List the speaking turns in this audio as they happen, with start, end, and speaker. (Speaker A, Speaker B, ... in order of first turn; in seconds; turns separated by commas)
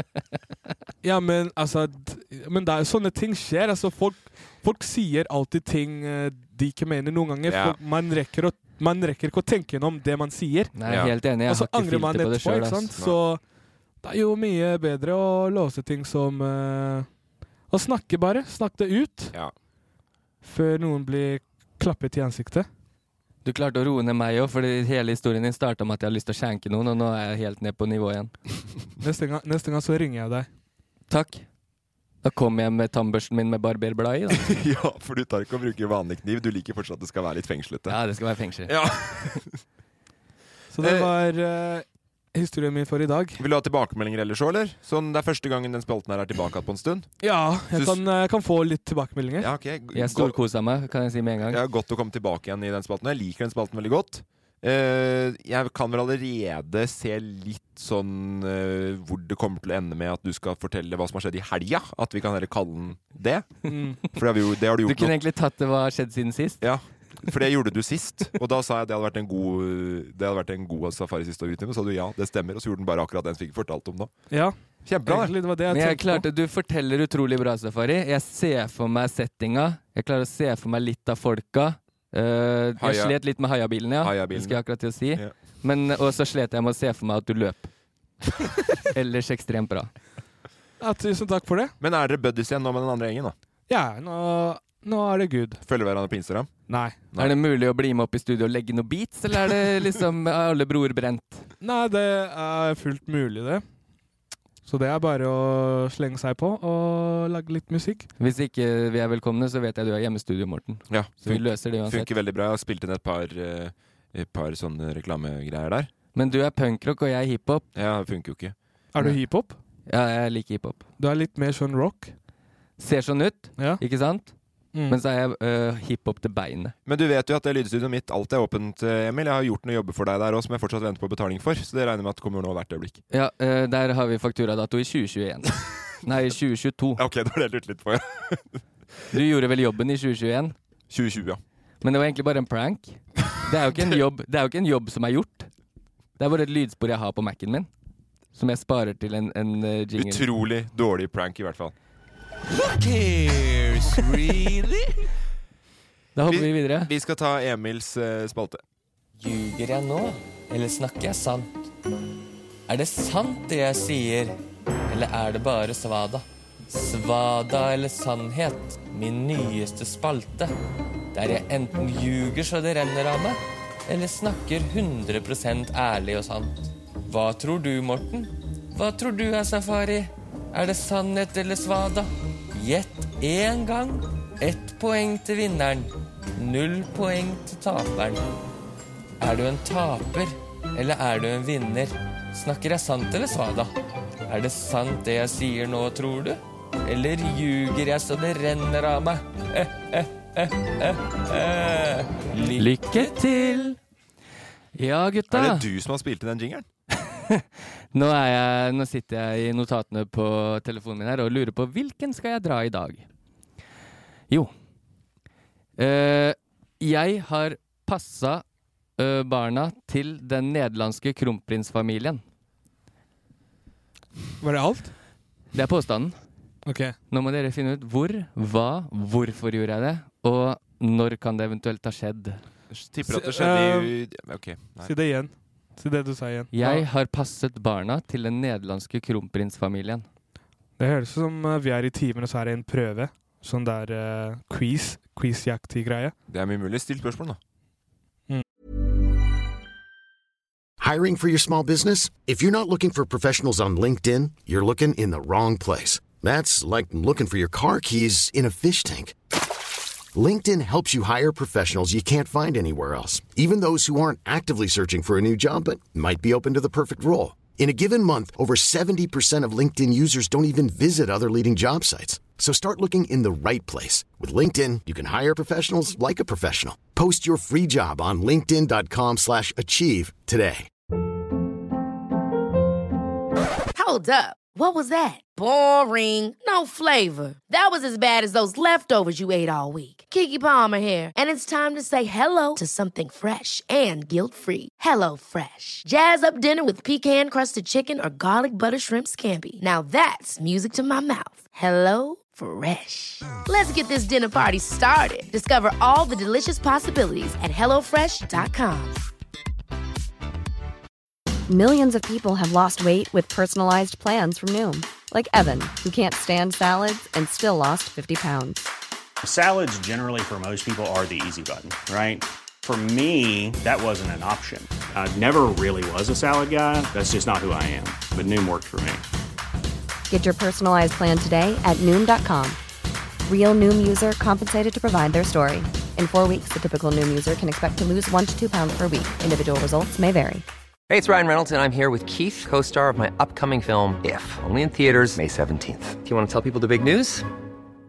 Speaker A: 1.0-10.8, Speaker B: 7.5-7.8, Speaker C: 10.8-12.9, Speaker A: 11.4-13.4, Speaker A: 14.0-17.1, Speaker A: 17.7-19.3, Speaker A: 20.4-22.7, Speaker C: 23.4-28.3, Speaker A: 29.0-30.5, Speaker C: 31.1-31.4, Speaker C: 32.2-34.6, Speaker B: 34.3-38.0, Speaker C: 37.9-39.4, Speaker B: 38.6-39.6, Speaker A: 40.7-43.4, Speaker B: 40.8-41.1, Speaker B: 43.4-47.1, Speaker A: 47.2-49.5, Speaker B: 47.7-48.0, Speaker B: 49.4-50.4, Speaker C: 49.9-51.6, Speaker B: 51.5-65.1, Speaker A: 63.7-64.0, Speaker C: 64.8-66.6, Speaker B: 66.6-74.1, Speaker A: 74.3-76.2, Speaker B: 74.8-75.3, Speaker C: 75.7-87.7, Speaker B: 82.8-83.2, Speaker B: 84.0-84.6, Speaker C: 88.8-89.9, Speaker A: 90.8-91.7, Speaker B: 91.8-93.3, Speaker A: 93.7-95.6, Speaker B: 95.6-96.5, Speaker A: 96.7-97.0, Speaker C: 97.2-101.5, Speaker A: 101.6-103.6, Speaker A: 104.7-108.1, Speaker C: 108.2-112.1, Speaker B: 110.9-115.9, Speaker C: 116.1-117.7, Speaker B: 117.7-118.5, Speaker A: 118.9-119.6, Speaker C: 119.9-120.8, Speaker A: 121.0-122.1, Speaker C: 122.8-124.3, Speaker A: 124.7-125.0, Speaker C: 124.9-126.7, Speaker B: 126.8-133.0, Speaker C: 133.1-137.0, Speaker B: 137.0-138.6, Speaker C: 139.1-140.5, Speaker B: 140.9-141.4, Speaker C: 141.8-145.5, Speaker B: 143.7-144.0, Speaker C: 146.2-147.7, Speaker C: 148.3-150.2, Speaker B: 149.9-151.7, Speaker D: 152.6-155.1, Speaker C: 156.1-156.9, Speaker B: 156.3-158.6, Speaker D: 159.2-161.7, Speaker D: 162.7-170.5, Speaker D: 171.1-188.2, Speaker D: 189.2-193.7, Speaker D: 194.2-203.8, Speaker C: 202.5-203.6, Speaker C: 204.7-205.7, Speaker B: 205.3-206.7, Speaker C: 207.1-213.0, Speaker C: 215.8-218.4, Speaker C: 219.0-222.2, Speaker A: 224.4-224.9, Speaker C: 225.5-226.2, Speaker A: 226.7-226.9, Speaker C: 227.1-232.4, Speaker B: 232.7-234.9, Speaker A: 233.0-233.9, Speaker A: 234.8-236.8, Speaker C: 236.5-240.0, Speaker A: 240.8-246.1, Speaker B: 246.3-247.4, Speaker E: 250.8-259.1, Speaker E: 260.1-280.7, Speaker F: 283.7-309.0, Speaker G: 311.5-318.6, Speaker H: 319.2-329.0, Speaker G: 330.1-332.6, Speaker G: 333.2-340.4, Speaker I: 340.9-347.3